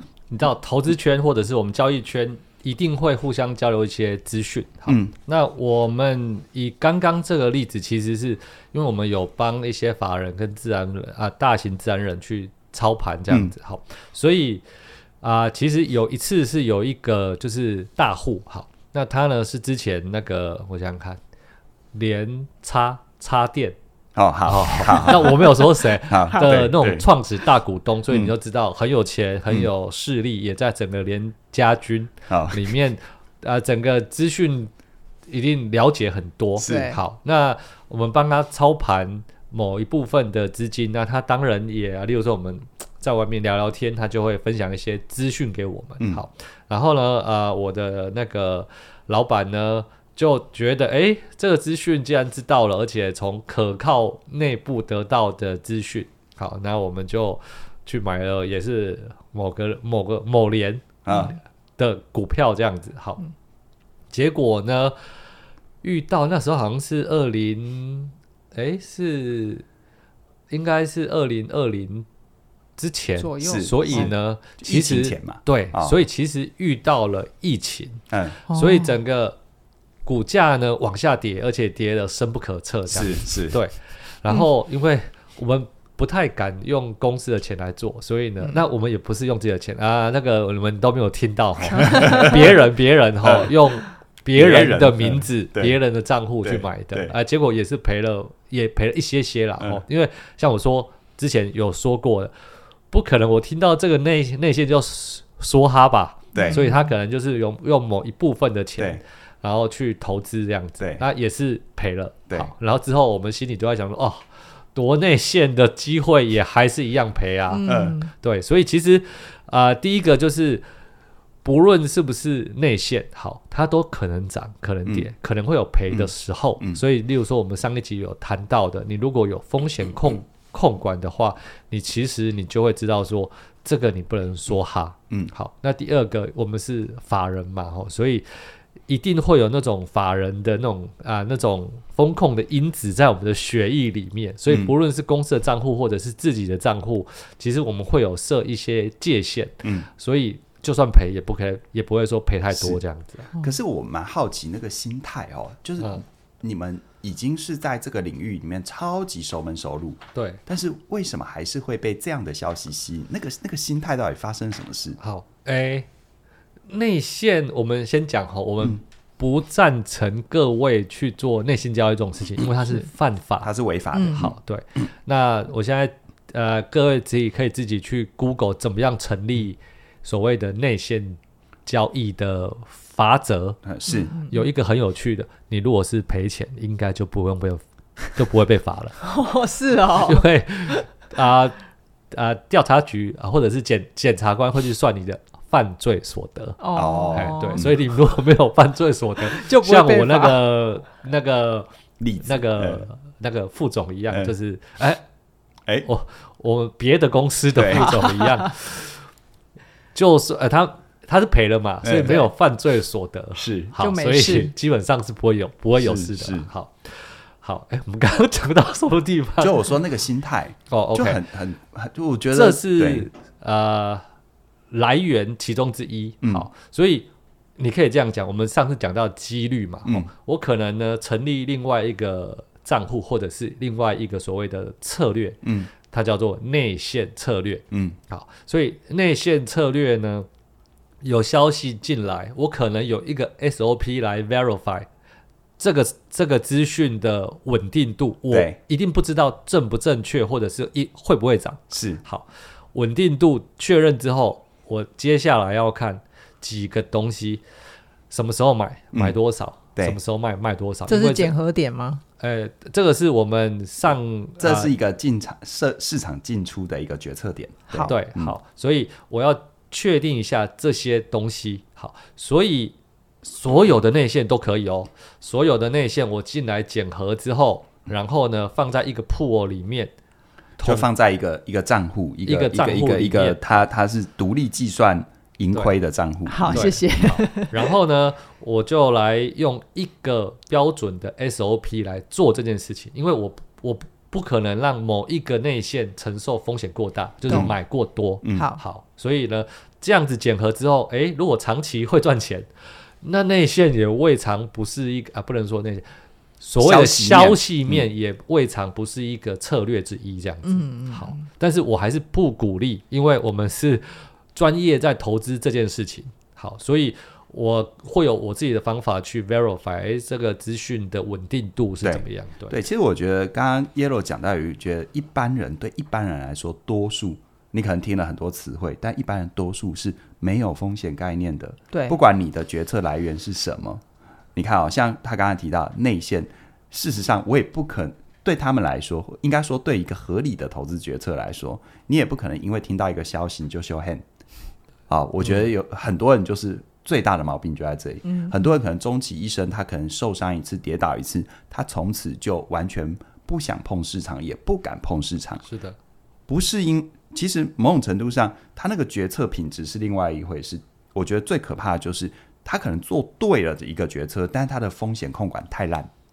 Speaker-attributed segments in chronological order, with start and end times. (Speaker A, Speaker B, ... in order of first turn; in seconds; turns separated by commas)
Speaker A: 0.3-14.6, Speaker B: 4.9-5.1, Speaker A: 15.2-21.2, Speaker A: 21.9-23.8, Speaker B: 24.1-27.1, Speaker A: 24.4-34.7, Speaker B: 32.3-32.7, Speaker A: 35.3-63.2, Speaker B: 36.6-37.0, Speaker C: 36.6-37.0, Speaker B: 61.0-61.4, Speaker A: 64.1-65.0, Speaker A: 65.8-69.6, Speaker A: 70.5-72.0, Speaker A: 72.8-79.4, Speaker C: 73.2-74.1, Speaker B: 73.4-76.0, Speaker B: 78.1-78.4, Speaker C: 78.5-78.9, Speaker A: 80.0-102.3, Speaker B: 82.9-83.6, Speaker B: 91.8-92.5, Speaker C: 91.8-92.3, Speaker B: 93.2-93.5, Speaker B: 94.3-95.8, Speaker B: 96.4-97.1, Speaker A: 102.9-120.6, Speaker B: 106.3-106.6, Speaker C: 106.3-106.9, Speaker C: 117.5-118.1, Speaker B: 117.7-118.0, Speaker A: 121.4-153.3, Speaker B: 125.9-126.8, Speaker B: 144.5-144.7, Speaker B: 149.6-149.9, Speaker B: 152.5-152.8, Speaker B: 153.4-165.0, Speaker A: 160.1-160.4, Speaker A: 165.0-165.9, Speaker A: 166.7-173.5, Speaker B: 173.4-174.3, Speaker C: 173.9-174.3, Speaker A: 174.1-183.6, Speaker B: 183.6-184.1, Speaker C: 183.9-184.4, Speaker A: 184.2-189.0, Speaker C: 189.0-190.8, Speaker A: 190.0-191.6, Speaker A: 192.1-201.7, Speaker C: 196.6-197.6, Speaker B: 196.7-197.8, Speaker C: 199.3-200.4, Speaker B: 202.0-202.8, Speaker A: 202.2-205.0, Speaker A: 205.8-208.9, Speaker B: 207.5-208.0, Speaker C: 207.9-208.2, Speaker A: 209.9-219.7, Speaker B: 211.8-212.3, Speaker B: 213.3-213.7, Speaker C: 213.8-214.5, Speaker B: 215.8-216.5, Speaker B: 219.4-223.1, Speaker A: 220.7-221.2, Speaker A: 222.3-224.0, Speaker A: 224.7-240.3, Speaker B: 226.2-226.5, Speaker B: 235.4-235.7, Speaker B: 237.7-238.0, Speaker A: 241.0-244.9, Speaker A: 245.6-257.4, Speaker B: 248.3-248.6, Speaker B: 251.7-252.0, Speaker A: 258.1-261.3, Speaker C: 260.9-262.0, Speaker A: 262.2-264.7, Speaker B: 264.4-268.3, Speaker C: 267.7-267.9, Speaker A: 267.8-279.9, Speaker A: 280.6-280.9, Speaker B: 280.6-286.7, Speaker A: 282.2-283.4, Speaker C: 286.3-287.7, Speaker A: 286.5-302.5, Speaker B: 297.3-297.6, Speaker B: 298.2-298.5, Speaker C: 298.3-298.6, Speaker A: 303.0-305.8, Speaker A: 306.4-322.6, Speaker B: 306.6-307.8, Speaker C: 310.4-311.2, Speaker B: 321.8-333.8, Speaker C: 331.7-332.0, Speaker B: 334.3-344.0, Speaker B: 344.9-355.4, Speaker C: 348.0-348.5, Speaker A: 355.4-355.8, Speaker B: 356.3-365.9